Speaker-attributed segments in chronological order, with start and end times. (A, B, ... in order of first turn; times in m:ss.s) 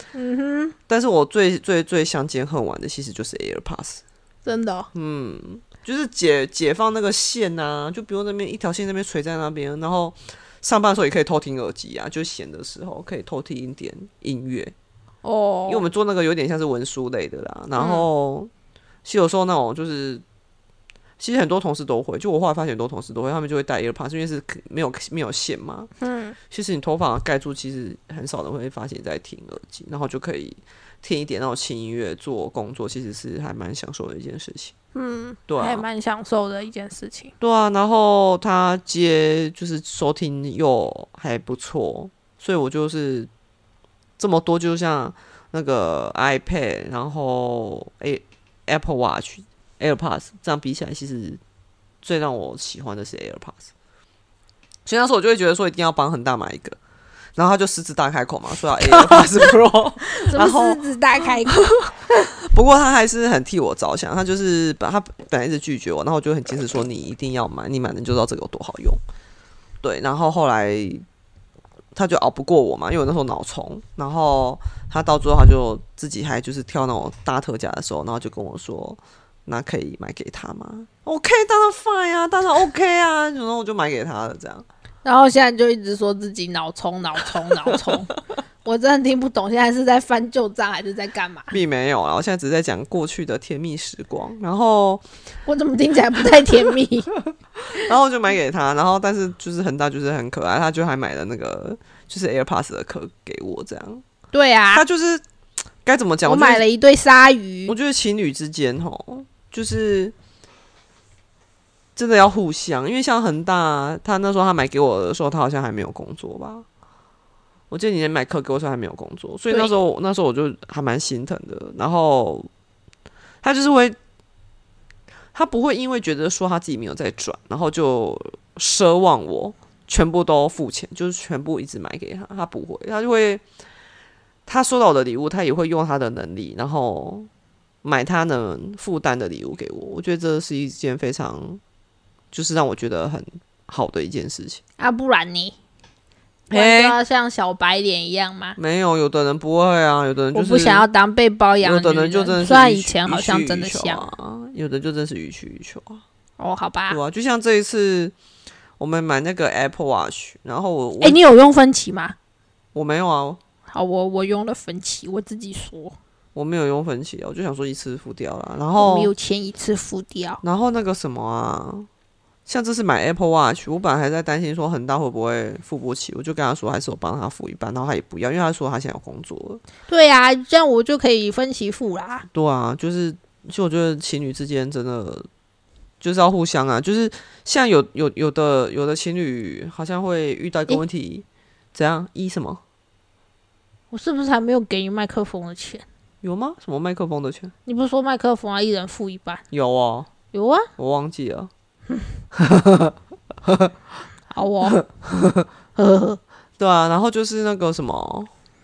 0:00.1-0:00.7 A
0:00.9-0:04.0 B
0:04.4-0:04.9 A
0:04.9-0:14.7 B
0:15.2-0:15.8 A
0:15.7-0:18.5 B
0:17.8-0:18.0 A
0:19.0-0:20.2 B
0:21.2-0:25.9 B
0:26.0-0:26.4 A
0:26.5-0:34.7 B
0:34.9-0:37.3 A
0:35.5-0:35.8 B
0:37.4-0:43.3 B
0:44.2-0:51.4 B
0:52.0-0:53.7 B
0:54.8-0:56.8 B
0:57.4-1:09.0 B
0:58.8-0:59.5 A
1:00.0-1:01.7 A
1:09.8-1:11.0 B
1:11.9-1:24.6 B
1:25.0-1:28.1 A
1:27.6-1:28.0 B
1:28.6-1:31.5 A
1:31.5-1:35.0 B
1:35.4-1:37.1 A
1:37.6-1:44.0 B
1:44.3-1:44.8 A
1:44.7-1:45.2 B
1:45.8-1:46.6 B
1:46.2-1:47.7 A
1:47.7-1:50.1 B
1:52.0-1:56.6 B
1:57.7-2:02.5 B
2:03.4-2:04.0 B
2:05.3-2:13.4 B
2:14.4-2:17.3 B
2:17.8-2:21.6 B
2:22.3-2:24.6 B
2:24.8-2:25.5 A
2:26.5-2:27.0 B
2:26.5-2:28.6 A
2:28.6-2:30.8 B
2:30.3-2:34.1 A
2:31.6-2:36.0 B
2:36.4-2:37.0 A
2:36.9-2:38.1 B
2:38.8-2:41.2 B
2:41.0-2:42.1 A
2:42.7-2:43.4 B
2:43.7-2:45.9 A
2:46.3-2:49.1 B
2:48.8-2:50.4 A
2:50.4-2:51.9 B
2:52.4-2:59.6 B
2:59.9-3:02.2 A
3:02.3-3:05.3 B
3:06.0-3:12.6 B
3:13.9-3:15.8 A
3:16.2-3:17.5 B
3:17.6-3:19.4 A
3:19.5-3:20.1 B
3:20.3-3:20.7 A
3:20.8-3:21.5 B
3:22.3-3:23.7 B
3:24.3-3:24.8 A
3:24.7-3:25.5 B
3:25.8-3:26.2 A
3:26.6-3:28.3 B